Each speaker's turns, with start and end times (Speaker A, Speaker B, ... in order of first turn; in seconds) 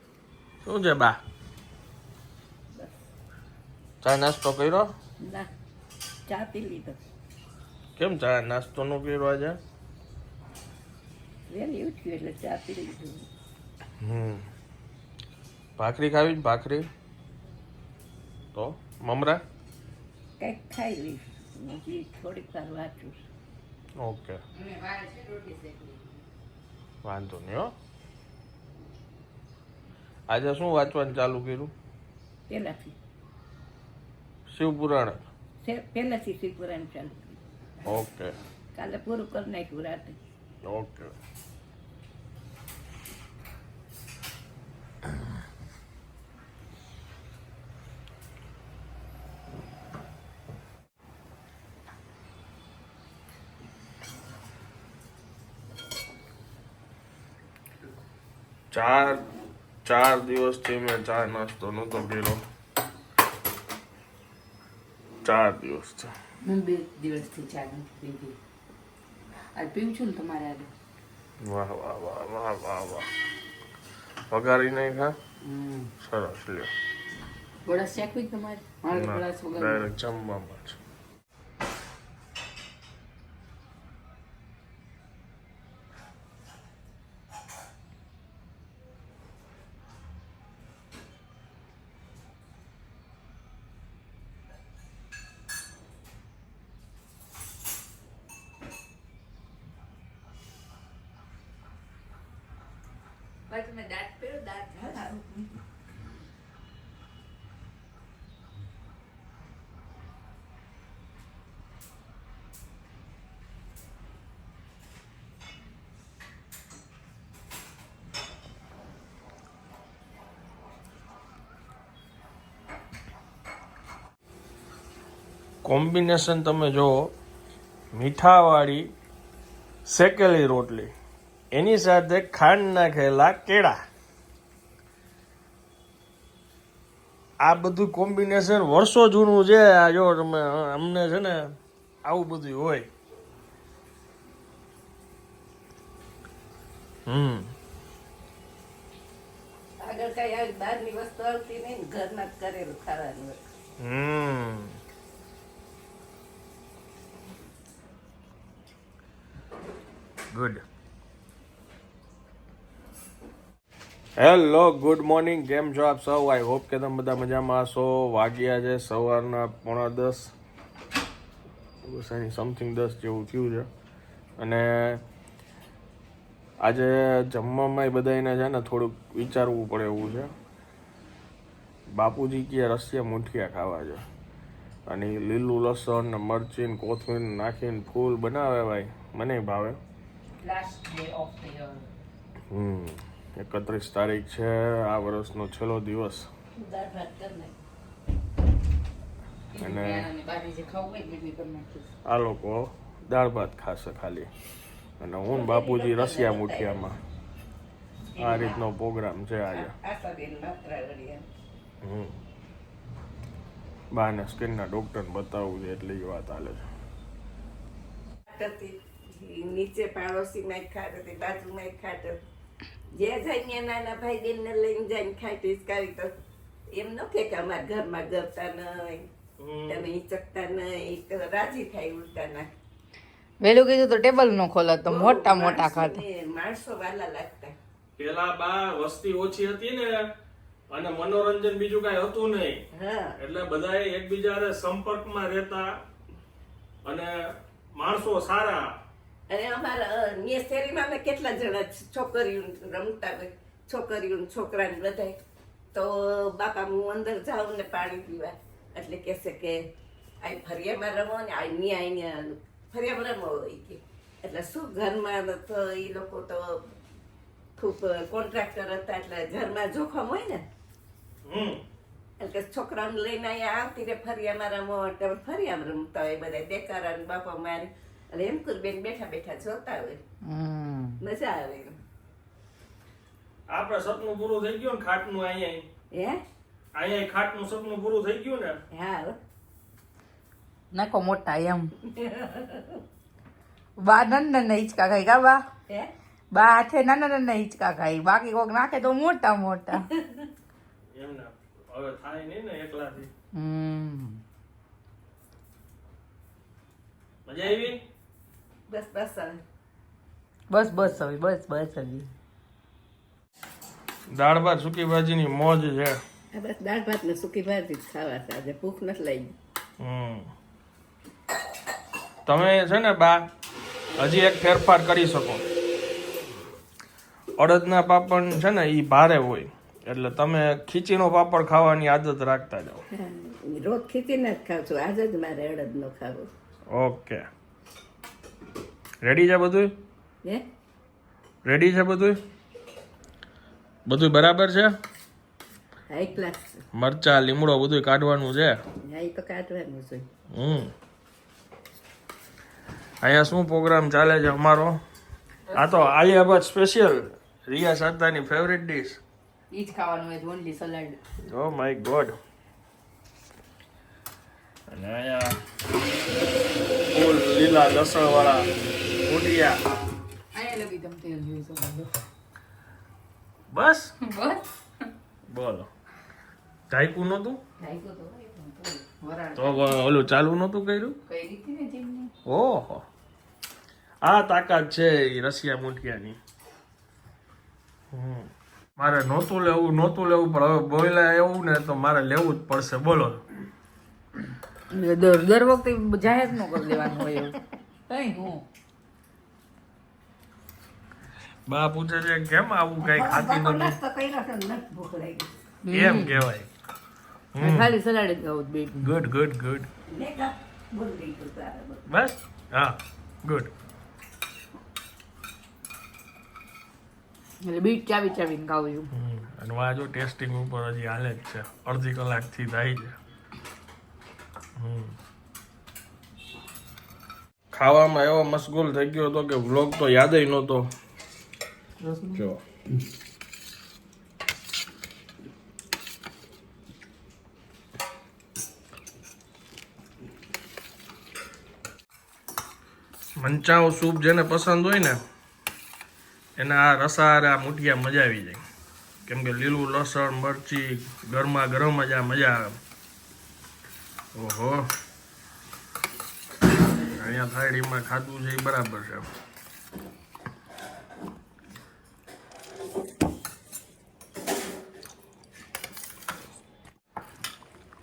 Speaker A: 0.6-1.2, 4.0-4.9, 8.0-9.6, 14.0-14.5, 15.8-16.9, 18.5-19.4, 24.0-24.4, 27.0-27.7, 30.3-31.7, 34.5-35.3, 37.9-38.3, 40.6-41.1, 58.7-59.2, 59.8-62.4, 65.2-66.1, 71.4-73.0, 74.3-75.1, 76.0-76.7, 78.9-80.8, 125.6-127.1, 127.9-128.9, 129.8-130.9, 131.5-133.8, 137.4-142.9, 147.1-147.5, 153.8-154.8, 160.3-160.6, 164.2-170.3, 171.8-173.7, 174.4-175.0, 176.6-180.3, 181.9-184.0, 184.9-189.8, 192.5-196.3, 199.6-200.1, 202.0-204.3, 205.0-207.0, 208.2-209.7, 211.8-212.2, 213.9-216.7, 229.4-229.9, 238.0-240.1, 240.7-242.6, 243.2-245.7, 246.8-247.1, 247.7-248.7, 271.2-271.6, 283.5-285.6, 286.7-288.6, 300.9-303.1, 307.2-307.8, 314.1-316.0, 319.8-320.3, 322.2-323.2, 324.0-325.4, 327.4-332.8, 336.7-337.2, 339.0-339.7, 341.4-342.2, 343.9-344.7, 346.7-348.6, 350.3-350.7, 353.0-354.8, 355.5-359.0, 361.3-362.1, 364.7-365.4, 366.9-368.5, 369.0-369.6, 373.5-373.9, 375.3-375.7, 376.7-377.4, 379.4-381.0, 382.2-382.8, 384.0-386.2, 387.9-393.2, 401.5-403.8, 405.7-406.5, 407.4-407.7, 408.8-409.7, 411.9-413.5, 418.9-423.0, 424.6-424.9, 427.5-430.7, 443.2-445.0, 446.4-448.4, 449.0-452.6, 454.1-454.7, 456.9-459.1
Speaker B: 5.2-5.5, 6.3-7.0, 11.5-13.2, 20.4-23.2, 32.5-33.0, 35.6-37.4, 38.7-40.2, 104.8-105.5, 149.8-153.4, 196.5-197.5, 205.3-206.9, 208.1-208.6, 209.5-211.2, 218.3-222.2, 222.9-226.1, 226.7-229.1, 229.7-232.5, 234.8-237.5, 242.7-243.1, 249.3-255.2, 255.7-259.6, 260.2-266.6, 267.6-270.4, 272.2-280.0, 281.0-281.8, 285.9-286.2, 288.7-289.2, 291.9-292.8, 300.0-300.2, 308.7-309.4, 316.3-319.3, 332.9-336.3, 345.9-346.6, 348.8-350.1, 402.8-405.3, 409.9-411.8
Speaker C: 24.5-26.2, 66.4-68.4, 69.5-70.7, 75.4-75.9, 77.7-79.8, 103.5-105.0, 190.4-191.9, 199.5-201.9, 233.4-236.0, 280.2-281.0, 290.7-291.7, 293.8-295.4, 296.3-299.9, 303.3-304.2, 310.5-312.1, 355.5-355.8, 359.5-361.0, 370.3-371.9, 374.0-374.9, 377.6-379.8, 381.1-382.1, 394.7-398.4, 405.6-406.2, 407.4-408.9, 417.4-418.9, 431.8-432.3